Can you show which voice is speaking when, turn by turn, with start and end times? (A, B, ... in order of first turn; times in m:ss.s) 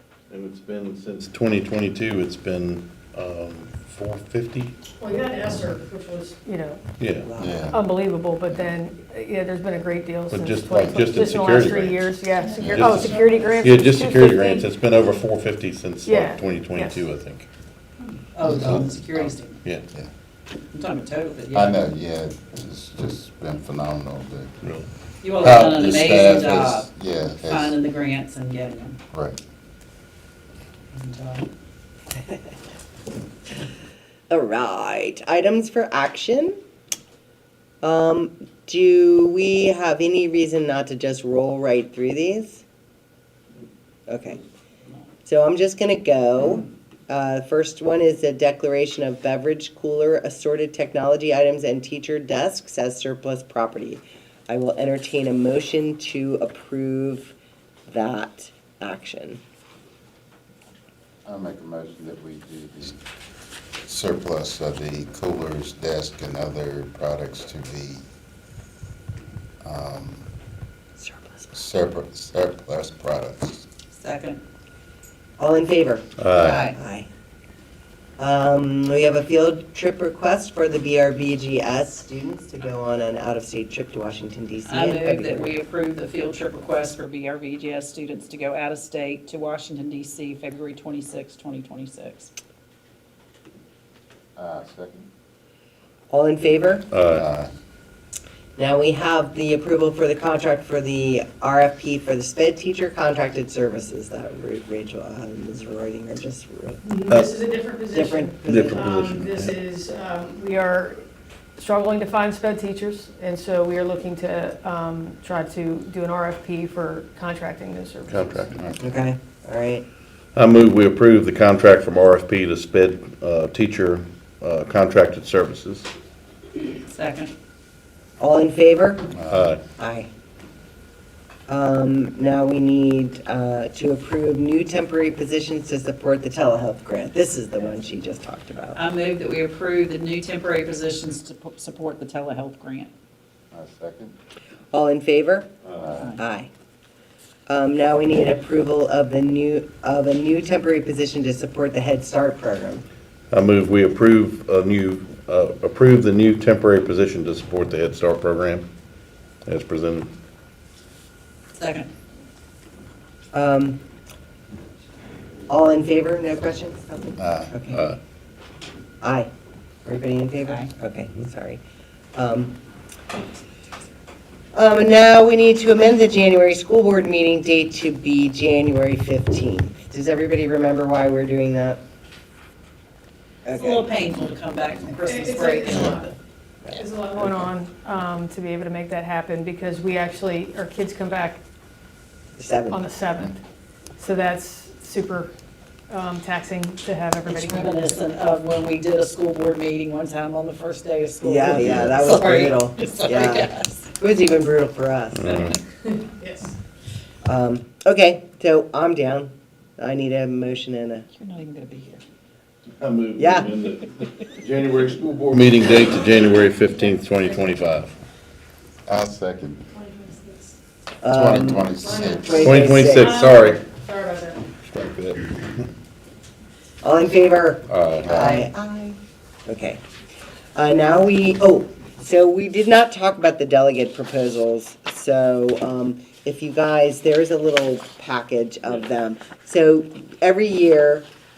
0:00.3-0:04.7 A
0:05.0-0:06.8 B
0:07.0-0:07.3 A
0:07.2-0:07.6 C
0:07.4-0:07.8 D
0:07.7-0:14.6 B
0:10.3-0:17.5 A
0:12.6-0:13.3 D
0:16.0-0:17.0 B
0:18.0-0:19.6 E
0:18.4-0:19.3 D
0:18.6-0:18.9 A
0:20.7-0:21.8 E
0:21.5-0:24.5 D
0:24.6-0:24.9 A
0:25.2-0:29.0 E
0:25.4-0:27.8 D
0:29.1-0:29.4 D
0:30.9-0:31.4 E
0:34.3-0:36.6 C
0:37.8-0:42.6 C
0:44.1-0:44.4 C
0:45.2-0:57.3 C
0:57.9-0:59.4 C
1:01.2-1:03.0 D
1:03.8-1:08.0 D
1:09.6-1:10.3 D
1:11.0-1:11.5 C
1:11.5-1:13.6 D
1:13.9-1:14.4 E
1:15.4-1:17.1 C
1:16.2-1:16.6 A
1:16.4-1:16.8 E
1:18.2-1:25.6 C
1:24.6-1:32.3 E
1:34.4-1:35.1 D
1:36.1-1:36.9 C
1:36.9-1:37.2 A
1:37.1-1:37.5 D
1:38.6-1:46.8 C
1:46.8-1:51.0 B
1:47.9-1:48.8 C
1:48.4-1:49.5 A
1:51.6-1:58.5 B
1:58.1-1:58.6 A
1:58.6-1:58.8 D
1:58.8-1:59.8 C
2:00.3-2:05.9 A
2:06.9-2:07.3 E
2:08.2-2:09.0 C
2:09.1-2:09.5 D
2:09.3-2:09.6 A
2:09.8-2:10.1 C
2:11.5-2:18.8 C
2:18.7-2:22.9 E
2:23.5-2:24.1 D
2:24.7-2:25.5 C
2:25.6-2:26.0 D
2:26.2-2:26.5 C
2:27.5-2:32.8 C
2:33.3-2:38.7 A
2:39.4-2:40.1 A
2:41.5-2:41.9 E
2:43.3-2:43.8 C
2:45.5-2:47.8 C
2:47.2-2:47.5 D
2:47.7-2:48.0 A
2:49.0-2:49.3 C
2:49.8-2:51.6 C
2:52.1-2:52.6 C
2:54.5-3:01.8 C
3:03.4-3:03.8 C
3:03.5-3:06.1 E
3:05.0-3:06.1 B
3:06.7-3:07.5 C
3:06.7-3:11.4 B
3:12.4-3:12.9 C
3:12.7-3:13.4 B
3:14.0-3:15.3 B
3:15.9-3:18.0 B
3:17.2-3:23.9 E
3:21.2-3:25.3 C
3:21.4-3:22.0 A
3:25.1-3:25.6 A
3:26.0-3:26.5 B
3:27.2-3:31.0 C
3:31.2-3:32.0 E
3:32.8-3:37.9 A
3:33.2-3:33.5 C
3:38.9-3:39.6 D
3:41.0-3:43.2 C
3:41.1-3:42.4 D
3:41.8-3:44.4 B
3:42.4-3:43.6 A
3:44.6-3:45.6 A
3:46.8-3:49.8 C
3:47.7-3:48.5 A
3:48.0-3:48.4 D
3:50.5-4:01.1 C